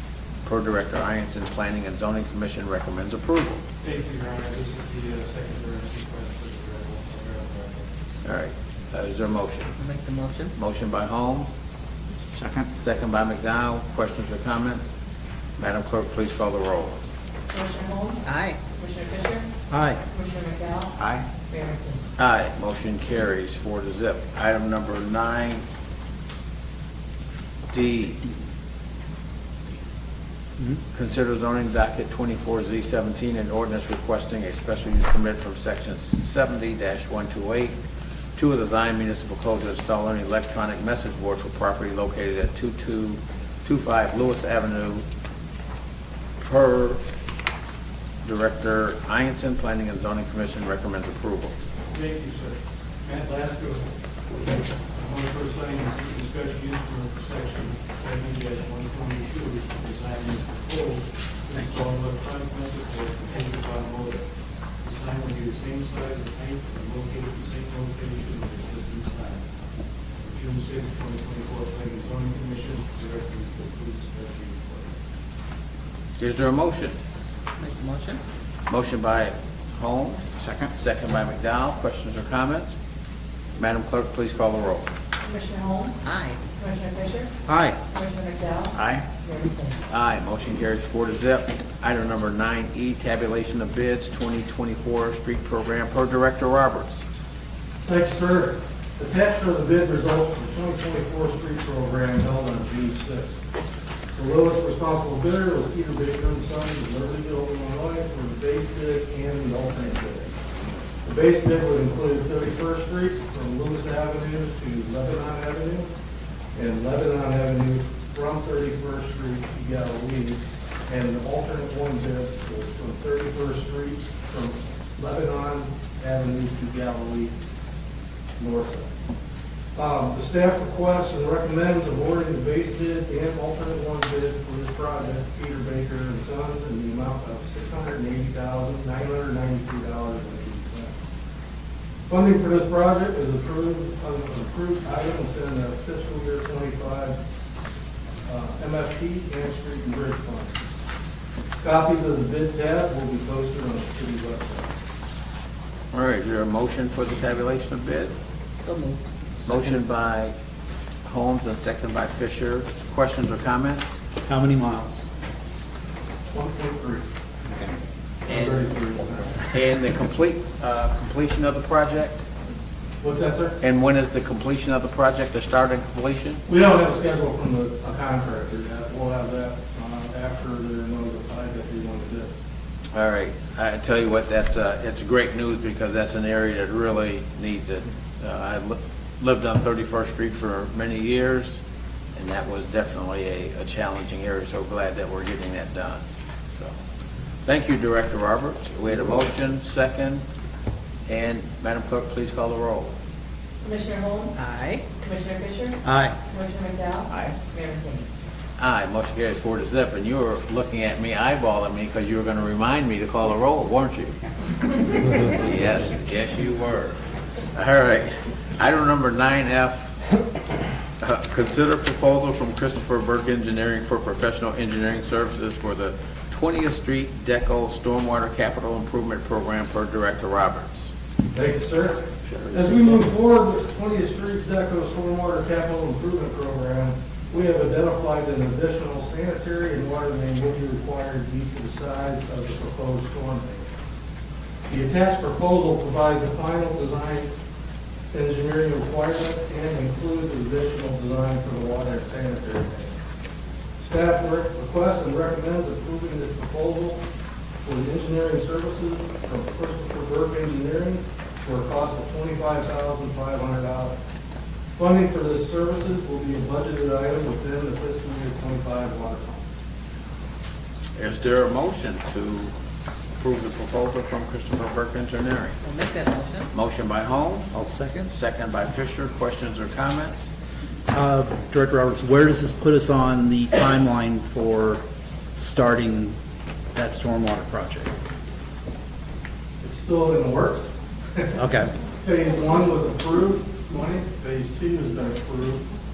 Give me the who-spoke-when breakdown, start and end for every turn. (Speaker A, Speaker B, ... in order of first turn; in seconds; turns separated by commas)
Speaker A: 0.4-3.6, Speaker B: 4.1-6.0, Speaker B: 6.7-7.5, Speaker A: 8.2-9.7, Speaker C: 9.8-10.5, Speaker A: 10.5-11.5, Speaker D: 12.3-12.7, Speaker A: 12.7-14.9, Speaker A: 15.6-17.0, Speaker E: 17.5-19.5, Speaker C: 18.2-18.6, Speaker D: 19.7-20.0, Speaker E: 20.1-20.9, Speaker D: 21.0-21.2, Speaker E: 21.5-22.0, Speaker A: 22.2-25.6, Speaker A: 27.7-28.2, Speaker A: 30.9-37.8, Speaker A: 38.4-45.0, Speaker A: 46.4-47.0, Speaker A: 48.2-51.5, Speaker B: 52.0-52.4, Speaker B: 53.1-53.6, Speaker B: 54.3-57.1, Speaker B: 58.3-58.6, Speaker B: 59.7-60.1, Speaker B: 67.6-68.0, Speaker B: 71.0-72.0, Speaker B: 73.9-74.4, Speaker A: 76.2-77.0, Speaker C: 77.6-78.2, Speaker A: 78.7-82.7, Speaker A: 83.6-84.9, Speaker E: 85.2-86.0, Speaker C: 86.0-86.4, Speaker E: 86.5-87.3, Speaker D: 87.5-87.8, Speaker E: 87.9-89.8, Speaker A: 89.9-97.0, Speaker B: 97.8-103.4, Speaker B: 104.1-110.3, Speaker B: 111.0-115.9, Speaker B: 116.5-127.3, Speaker B: 128.4-128.9, Speaker B: 129.7-140.9, Speaker B: 142.1-147.2, Speaker B: 148.2-150.6, Speaker B: 151.6-154.7, Speaker A: 155.9-158.1, Speaker C: 158.5-159.7, Speaker A: 159.4-160.3, Speaker A: 161.0-163.8, Speaker D: 164.2-165.0, Speaker B: 166.3-167.0, Speaker D: 167.5-167.8, Speaker B: 168.2-169.4, Speaker A: 168.3-168.6, Speaker A: 169.5-172.2, Speaker B: 173.0-173.6, Speaker A: 173.6-176.4, Speaker B: 176.5-182.3, Speaker A: 182.9-191.6, Speaker A: 192.2-196.0, Speaker A: 197.4-200.2, Speaker A: 201.1-202.9, Speaker E: 203.6-204.4, Speaker C: 204.3-204.8, Speaker E: 205.0-208.1, Speaker D: 205.8-206.2, Speaker A: 207.1-207.3, Speaker A: 208.6-214.2, Speaker A: 215.2-217.0, Speaker A: 217.5-219.9, Speaker A: 221.0-230.9, Speaker B: 231.3-243.6, Speaker A: 232.2-233.1, Speaker B: 244.7-247.3, Speaker B: 248.1-252.9, Speaker B: 253.8-257.0, Speaker B: 257.6-263.9, Speaker B: 264.8-269.4, Speaker A: 271.0-272.5, Speaker A: 273.2-275.6, Speaker C: 275.6-276.5, Speaker A: 276.5-277.5, Speaker D: 277.5-278.1, Speaker A: 278.1-280.3, Speaker D: 280.9-284.8, Speaker D: 285.3-286.2, Speaker D: 286.7-287.9, Speaker B: 289.6-291.4, Speaker D: 291.4-291.7, Speaker B: 291.9-295.6